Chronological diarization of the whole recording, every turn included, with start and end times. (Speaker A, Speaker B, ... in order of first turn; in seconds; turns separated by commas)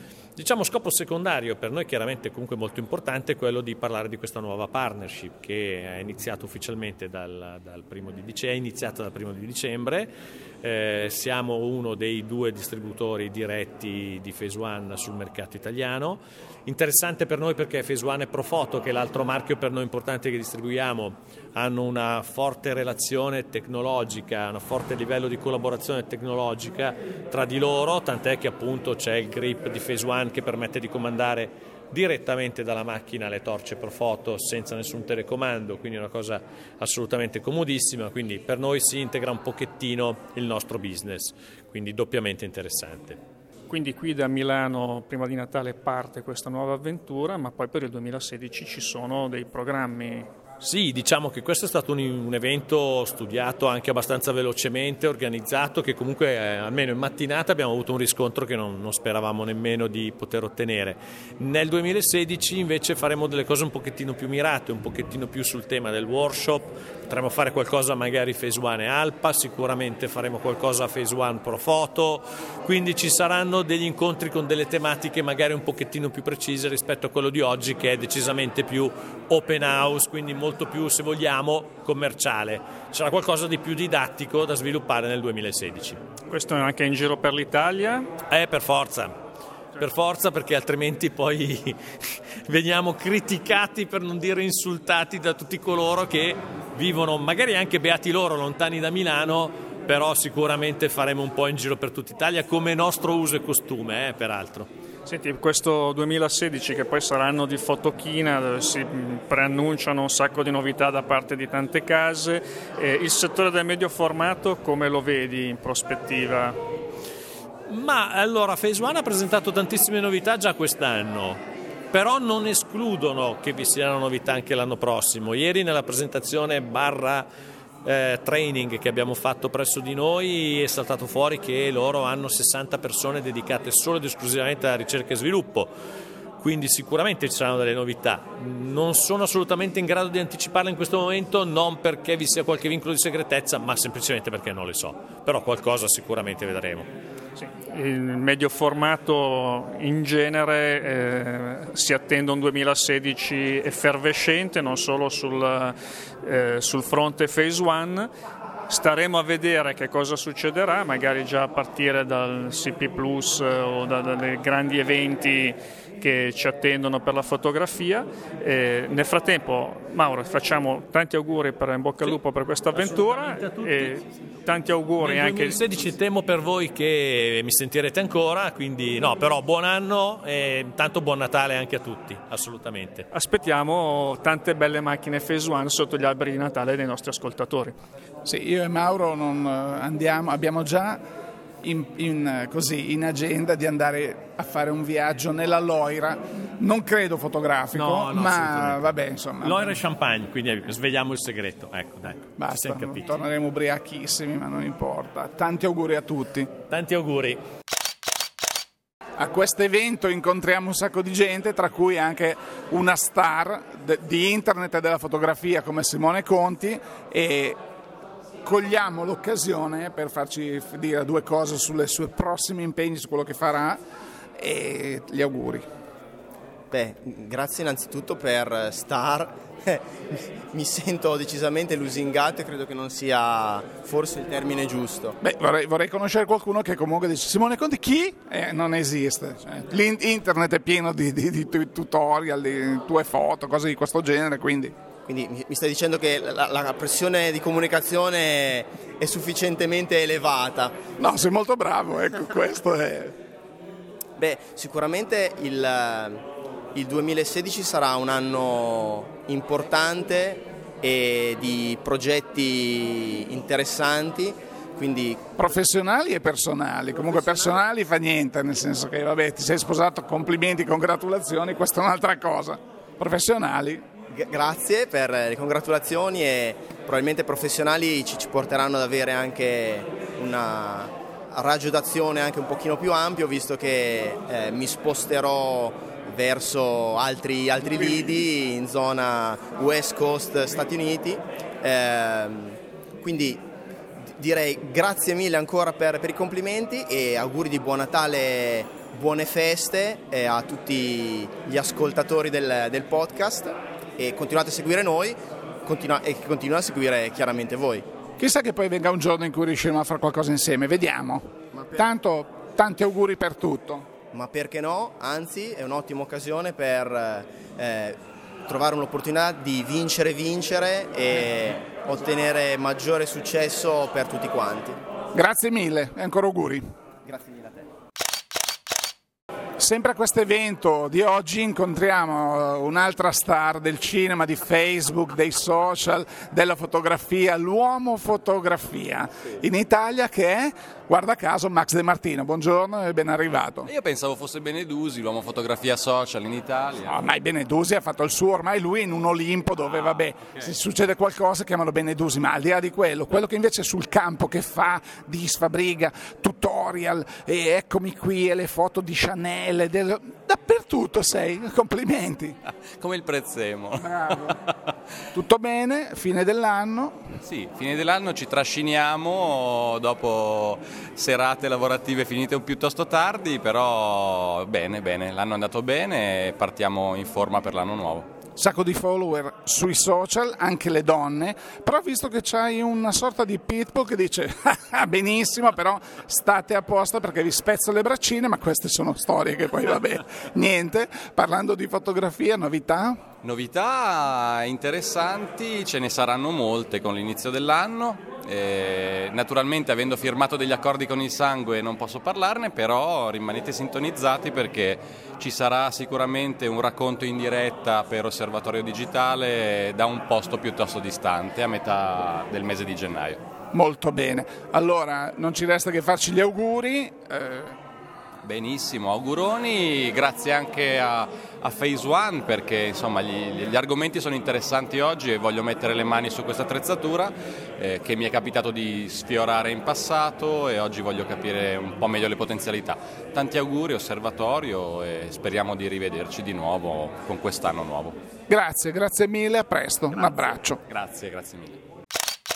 Speaker A: 0.4-43.2, Speaker B: 43.7-50.3, Speaker A: 50.6-86.0, Speaker B: 86.3-88.1, Speaker A: 88.3-89.2, Speaker A: 89.8-104.7, Speaker B: 105.1-116.6, Speaker A: 117.7-127.3, Speaker A: 127.8-135.7, Speaker A: 136.4-146.9, Speaker B: 147.4-158.1, Speaker B: 158.7-175.6, Speaker A: 172.7-174.1, Speaker A: 175.0-183.1, Speaker B: 183.1-187.8, Speaker C: 188.2-191.0, Speaker C: 191.6-199.8, Speaker A: 197.7-203.1, Speaker C: 202.4-206.5, Speaker A: 206.7-207.4, Speaker C: 209.2-217.6, Speaker C: 218.4-223.8, Speaker C: 224.4-225.7, Speaker D: 226.7-235.2, Speaker C: 235.2-244.8, Speaker D: 245.1-250.8, Speaker C: 251.0-253.2, Speaker D: 254.2-256.2, Speaker D: 256.8-265.3, Speaker C: 265.4-273.9, Speaker D: 274.1-293.5, Speaker D: 294.0-307.9, Speaker C: 308.2-313.9, Speaker D: 314.1-324.8, Speaker C: 325.1-326.6, Speaker D: 327.1-327.6, Speaker C: 329.6-343.7, Speaker E: 343.6-347.0, Speaker C: 346.8-362.4, Speaker E: 362.7-364.5, Speaker C: 363.8-364.4, Speaker C: 365.1-367.1, Speaker E: 367.2-378.1, Speaker C: 378.4-393.1, Speaker E: 393.2-413.2, Speaker C: 413.5-417.6, Speaker E: 418.2-438.0, Speaker C: 438.3-440.6, Speaker E: 440.6-441.6